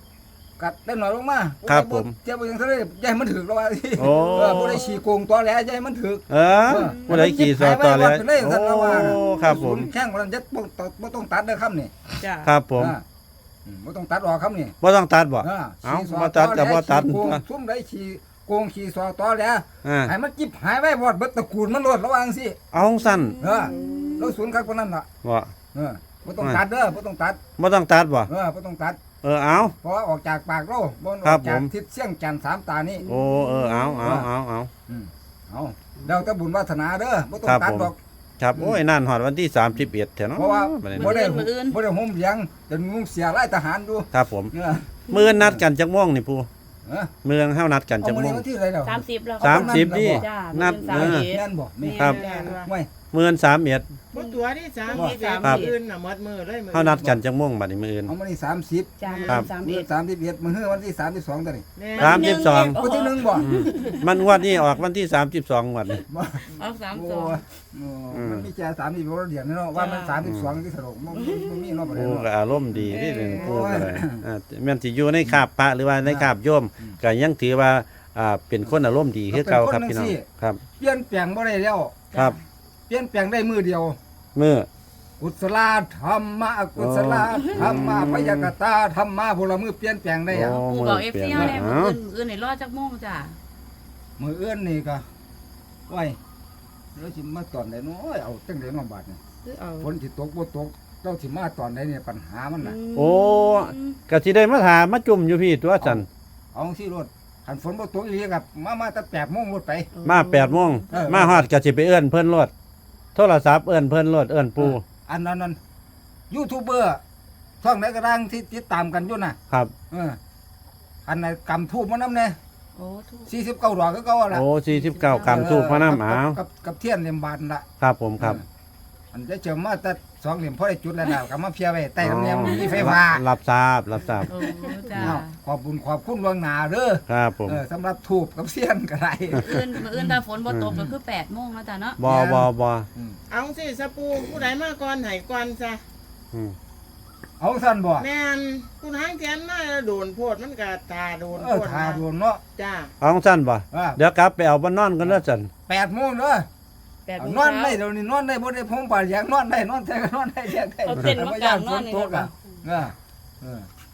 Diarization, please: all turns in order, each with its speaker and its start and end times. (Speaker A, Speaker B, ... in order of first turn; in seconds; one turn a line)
Speaker A: 0.6-12.2
Speaker B: 1.7-2.1
Speaker B: 4.0-4.8
Speaker C: 4.0-5.0
Speaker B: 6.3-9.9
Speaker C: 6.6-7.5
Speaker C: 9.0-9.8
Speaker C: 12.2-12.5
Speaker B: 12.4-13.0
Speaker A: 12.8-13.0
Speaker A: 13.7-14.8
Speaker B: 14.8-17.4
Speaker A: 15.4-22.6
Speaker B: 19.8-20.1
Speaker B: 22.7-23.4
Speaker C: 22.9-24.4
Speaker A: 23.4-25.1
Speaker B: 25.2-25.5
Speaker A: 25.7-27.4
Speaker B: 27.6-28.3
Speaker A: 28.3-29.0
Speaker B: 29.2-29.8
Speaker A: 29.6-33.0
Speaker B: 31.2-31.7
Speaker C: 33.0-34.1
Speaker B: 33.1-34.7
Speaker A: 34.0-34.3
Speaker A: 34.9-38.0
Speaker B: 37.5-41.1
Speaker A: 38.5-38.8
Speaker A: 40.4-45.6
Speaker C: 40.9-41.8
Speaker B: 44.1-44.5
Speaker B: 45.1-46.5
Speaker A: 46.9-47.1
Speaker B: 47.2-48.4
Speaker A: 48.0-50.3
Speaker C: 48.8-52.6
Speaker B: 49.4-51.3
Speaker A: 50.9-52.9
Speaker D: 52.0-52.7
Speaker B: 53.1-53.9
Speaker D: 54.1-57.1
Speaker C: 54.1-55.8
Speaker B: 56.7-58.1
Speaker A: 58.1-61.6
Speaker C: 59.0-59.9
Speaker D: 59.1-59.5
Speaker D: 61.8-62.4
Speaker B: 62.0-62.8
Speaker C: 62.0-64.6
Speaker A: 62.6-63.5
Speaker B: 63.4-66.0
Speaker A: 66.1-74.2
Speaker C: 66.6-67.4
Speaker B: 68.1-68.5
Speaker C: 69.7-70.2
Speaker B: 70.2-70.5
Speaker C: 71.2-71.8
Speaker B: 71.9-80.6
Speaker C: 72.9-73.8
Speaker A: 76.0-77.0
Speaker A: 79.3-80.3
Speaker A: 80.8-82.0
Speaker C: 82.1-82.4
Speaker A: 82.9-84.0
Speaker B: 84.3-84.7
Speaker A: 85.2-90.6
Speaker B: 86.8-88.5
Speaker B: 90.3-92.0
Speaker C: 90.3-93.4
Speaker A: 91.3-91.6
Speaker A: 94.2-95.0
Speaker A: 95.9-96.2
Speaker A: 97.0-99.2
Speaker C: 99.4-99.9
Speaker A: 99.8-102.8
Speaker C: 102.6-104.0
Speaker B: 103.0-106.1
Speaker A: 105.8-109.9
Speaker C: 109.9-111.1
Speaker B: 110.0-112.5
Speaker A: 110.9-111.5
Speaker B: 113.2-114.8
Speaker A: 114.6-115.6
Speaker A: 116.3-117.0
Speaker A: 117.6-119.4
Speaker A: 119.9-120.2
Speaker A: 121.1-122.4
Speaker C: 122.8-123.3
Speaker A: 123.3-124.5
Speaker B: 124.3-126.4
Speaker C: 124.7-125.5
Speaker A: 125.2-127.7
Speaker B: 127.8-128.4
Speaker A: 129.1-133.2
Speaker B: 132.0-134.3
Speaker C: 134.2-135.3
Speaker D: 134.4-134.9
Speaker A: 135.0-140.2
Speaker B: 137.1-137.6
Speaker C: 139.3-142.0
Speaker B: 140.5-140.8
Speaker B: 142.0-142.9
Speaker A: 142.0-143.2
Speaker D: 143.3-145.8
Speaker A: 147.4-148.1
Speaker D: 148.0-152.0
Speaker A: 151.3-152.4
Speaker D: 152.6-152.9
Speaker B: 153.0-155.5
Speaker A: 153.7-154.0
Speaker A: 155.0-156.5
Speaker C: 157.1-157.8
Speaker A: 157.2-163.7
Speaker C: 160.8-162.3